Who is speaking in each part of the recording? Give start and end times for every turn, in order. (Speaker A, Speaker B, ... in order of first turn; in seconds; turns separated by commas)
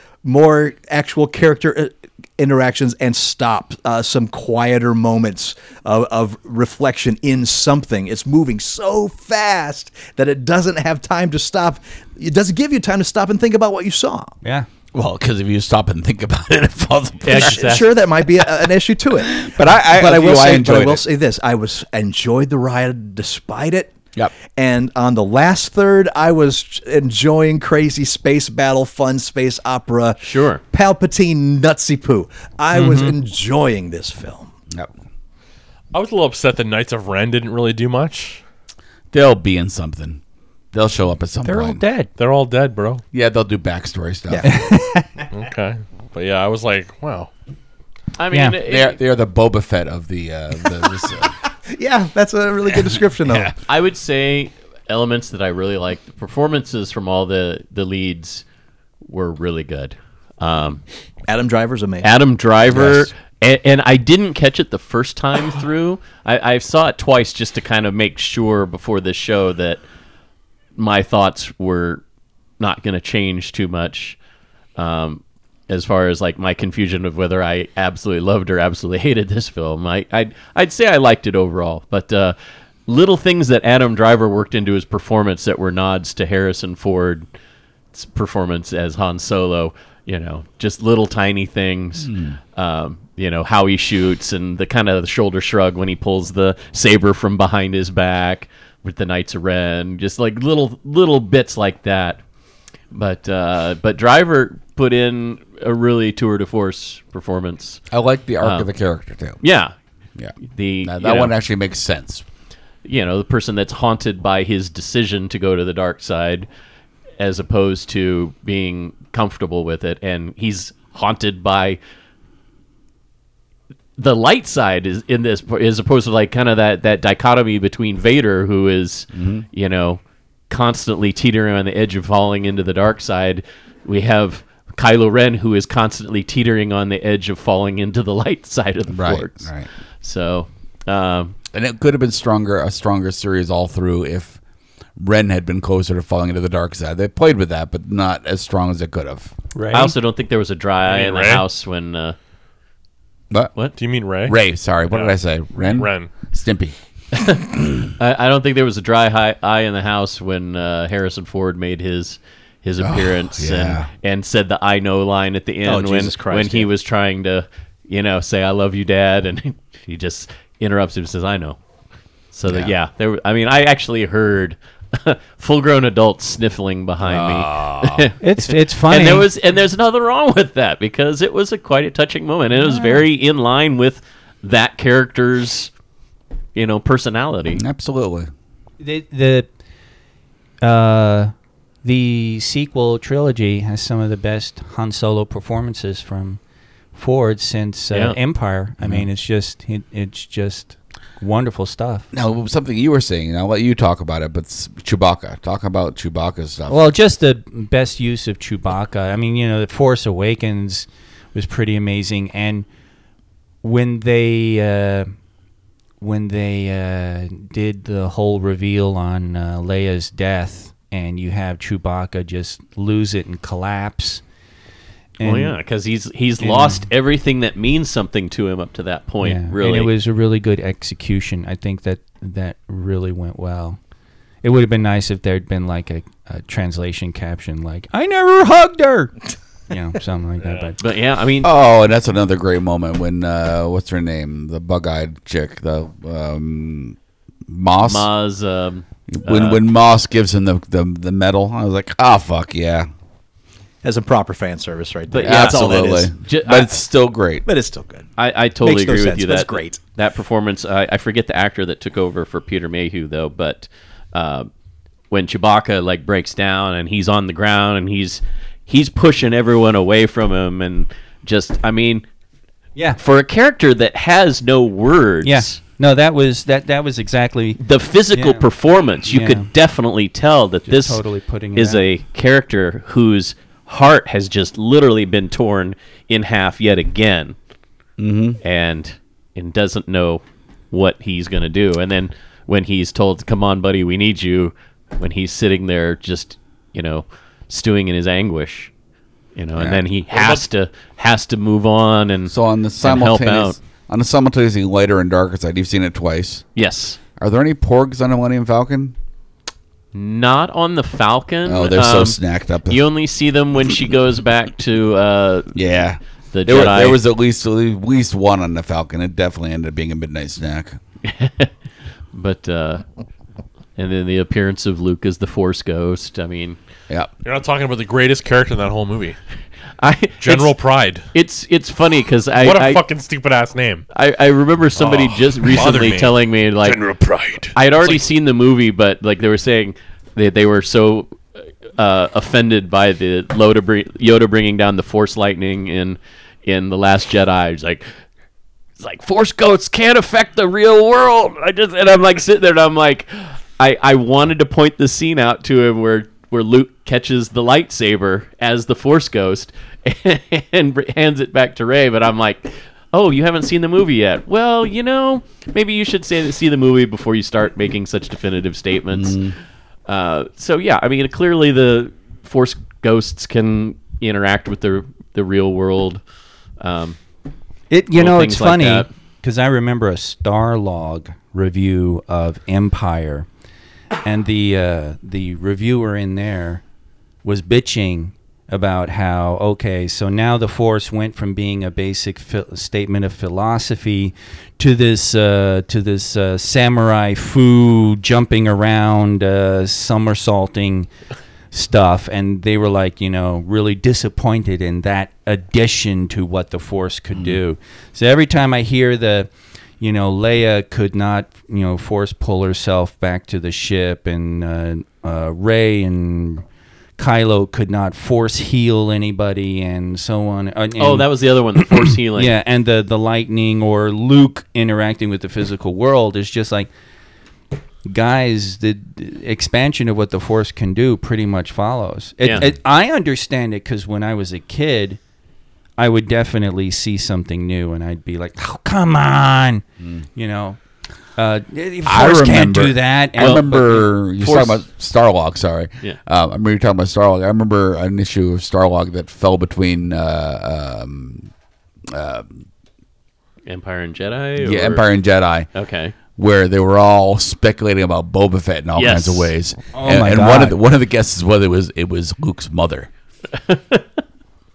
Speaker A: 0.2-14.3, Speaker B: 14.9-17.8, Speaker C: 17.2-17.9, Speaker A: 17.3-23.9, Speaker B: 18.4-21.0, Speaker A: 24.5-34.5, Speaker C: 30.2-30.6, Speaker D: 32.7-33.1, Speaker E: 35.9-38.4, Speaker B: 39.1-40.2, Speaker B: 40.7-41.8, Speaker D: 41.4-42.1, Speaker E: 42.2-43.0, Speaker B: 43.1-44.5, Speaker D: 44.4-45.1, Speaker E: 45.3-47.3, Speaker C: 48.2-49.0, Speaker D: 48.3-48.5, Speaker B: 48.7-51.3, Speaker A: 51.7-53.5, Speaker B: 52.7-53.5, Speaker C: 53.7-58.4, Speaker C: 59.0-60.8, Speaker A: 61.3-62.1, Speaker C: 62.0-69.8, Speaker A: 62.7-63.1, Speaker C: 70.8-72.0, Speaker C: 72.6-74.2, Speaker C: 74.8-82.3, Speaker C: 82.9-87.2, Speaker C: 87.9-102.2, Speaker B: 92.0-92.4, Speaker C: 102.9-107.8, Speaker B: 107.9-109.4, Speaker C: 108.4-108.7, Speaker C: 109.4-109.7, Speaker B: 110.2-112.2, Speaker C: 110.5-111.3, Speaker C: 112.8-116.5, Speaker C: 117.2-121.8, Speaker C: 124.0-139.5, Speaker B: 129.1-129.4, Speaker B: 138.9-139.7, Speaker C: 140.0-141.3, Speaker B: 141.5-144.4, Speaker B: 145.0-149.3, Speaker D: 149.5-149.9, Speaker C: 149.7-152.2, Speaker E: 150.8-151.4, Speaker E: 153.8-154.3, Speaker B: 154.2-156.7, Speaker E: 154.9-155.1, Speaker E: 155.7-156.1, Speaker C: 157.2-171.6, Speaker B: 162.8-163.9, Speaker A: 165.6-166.7, Speaker C: 172.3-185.7, Speaker B: 172.5-172.7, Speaker B: 177.0-178.1, Speaker D: 178.2-179.3, Speaker D: 182.6-183.0, Speaker C: 186.5-187.6, Speaker B: 187.5-188.3, Speaker D: 188.8-189.5, Speaker D: 190.6-191.3, Speaker D: 191.8-196.4, Speaker D: 196.9-202.1, Speaker C: 197.9-198.2, Speaker B: 198.8-199.1, Speaker B: 202.1-206.8, Speaker D: 206.7-212.7, Speaker D: 213.6-215.1, Speaker D: 216.0-224.2, Speaker D: 225.2-225.5, Speaker C: 225.2-229.9, Speaker D: 226.4-226.8, Speaker D: 229.2-233.8, Speaker D: 234.4-239.2, Speaker D: 239.7-240.8, Speaker C: 240.8-241.5, Speaker B: 241.4-248.1, Speaker C: 247.8-249.6, Speaker B: 249.1-252.9, Speaker A: 253.8-256.1, Speaker C: 255.1-256.7, Speaker B: 255.2-257.4, Speaker A: 257.4-258.1, Speaker C: 258.2-264.5, Speaker A: 258.6-259.8, Speaker C: 265.1-272.0, Speaker C: 273.0-275.6, Speaker D: 275.2-277.6, Speaker C: 277.6-281.0, Speaker D: 278.1-278.5, Speaker D: 279.1-279.5, Speaker D: 280.7-281.8, Speaker C: 281.5-287.4, Speaker B: 288.0-288.4, Speaker C: 288.4-298.7, Speaker C: 299.4-303.6, Speaker E: 300.1-300.4, Speaker B: 302.3-306.4, Speaker C: 306.6-307.0, Speaker B: 307.2-308.9, Speaker C: 309.9-315.5, Speaker B: 311.4-312.8, Speaker B: 315.5-320.8, Speaker C: 316.3-317.0, Speaker C: 321.0-321.5, Speaker C: 322.1-322.8, Speaker C: 323.8-326.6, Speaker E: 327.2-329.2, Speaker C: 329.8-330.5, Speaker E: 330.2-331.0, Speaker C: 331.1-332.8, Speaker E: 332.4-333.8, Speaker C: 333.9-336.8, Speaker E: 334.8-338.0, Speaker C: 337.5-341.1, Speaker C: 341.8-347.8, Speaker C: 348.8-369.2, Speaker B: 368.9-369.3, Speaker C: 369.9-376.0, Speaker C: 376.6-377.0, Speaker D: 377.7-383.3, Speaker C: 378.0-378.9, Speaker D: 384.0-386.6, Speaker D: 387.2-400.9, Speaker D: 401.5-416.4, Speaker D: 417.0-426.7, Speaker C: 420.8-422.3, Speaker D: 427.8-435.0, Speaker D: 435.8-439.6, Speaker D: 440.1-440.6, Speaker D: 441.1-443.9, Speaker B: 441.9-451.3, Speaker C: 443.2-444.6, Speaker B: 451.9-452.4, Speaker C: 453.5-454.9, Speaker B: 454.4-455.5, Speaker C: 455.5-455.9, Speaker B: 456.1-462.9, Speaker C: 458.8-459.3, Speaker D: 459.7-460.6, Speaker C: 463.3-463.8